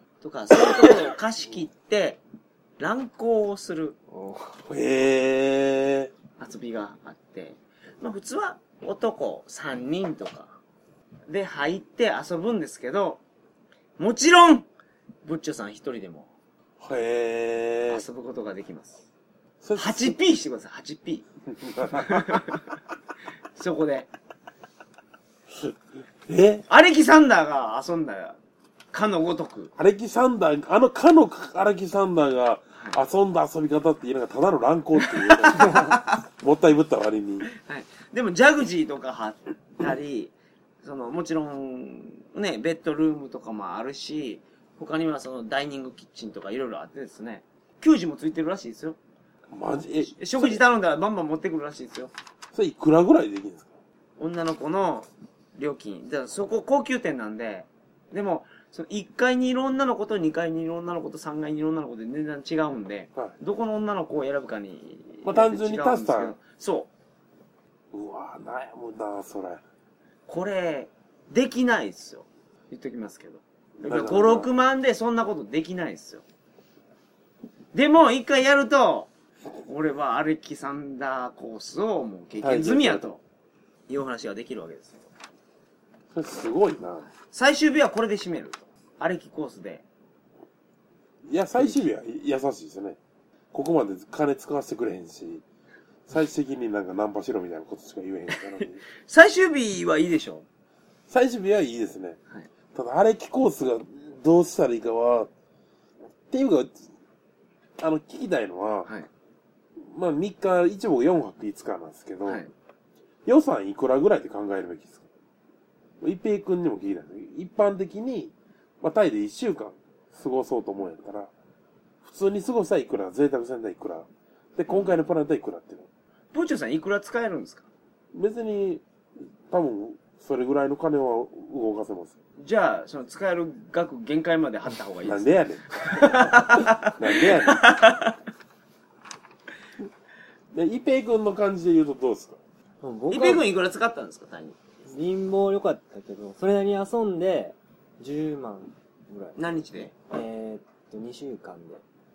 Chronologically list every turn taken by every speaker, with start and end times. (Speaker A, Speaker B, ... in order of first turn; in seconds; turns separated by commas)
Speaker A: 0.2-2.2, Speaker B: 0.7-1.0, Speaker A: 2.8-4.0, Speaker C: 4.1-4.6, Speaker B: 4.7-6.1, Speaker A: 6.4-10.6, Speaker A: 11.3-13.2, Speaker A: 14.0-14.7, Speaker A: 15.2-16.3, Speaker B: 16.8-18.0, Speaker A: 17.9-19.0, Speaker B: 19.6-20.2, Speaker A: 19.8-21.2, Speaker B: 21.6-22.5, Speaker A: 21.9-22.6, Speaker A: 23.5-24.1, Speaker B: 26.3-26.6, Speaker A: 26.7-28.4, Speaker A: 28.9-29.7, Speaker B: 29.8-37.5, Speaker A: 35.0-36.2, Speaker A: 37.5-49.0, Speaker B: 49.5-50.6, Speaker A: 50.0-52.1, Speaker B: 52.5-53.7, Speaker A: 54.2-66.9, Speaker B: 65.2-66.3, Speaker B: 67.9-69.6, Speaker A: 70.3-76.2, Speaker B: 73.8-74.5, Speaker A: 77.7-79.1, Speaker A: 79.6-83.2, Speaker B: 82.4-83.1, Speaker A: 83.9-85.0, Speaker B: 86.1-87.1, Speaker A: 87.2-89.8, Speaker B: 91.3-93.0, Speaker B: 93.5-95.4, Speaker B: 96.1-98.8, Speaker A: 98.3-100.5, Speaker B: 101.1-102.2, Speaker B: 102.7-105.3, Speaker B: 106.3-106.8, Speaker B: 107.8-108.9, Speaker B: 109.8-112.4, Speaker A: 112.2-112.5, Speaker B: 113.2-115.0, Speaker B: 116.0-121.3, Speaker B: 122.0-125.9, Speaker A: 124.7-125.0, Speaker A: 126.3-127.7, Speaker B: 128.1-128.8, Speaker B: 129.5-132.1, Speaker A: 132.4-138.2, Speaker B: 135.0-137.6, Speaker B: 140.5-142.4, Speaker C: 142.8-143.4, Speaker A: 143.1-144.6, Speaker C: 144.9-149.4, Speaker A: 149.3-149.9, Speaker C: 150.1-151.8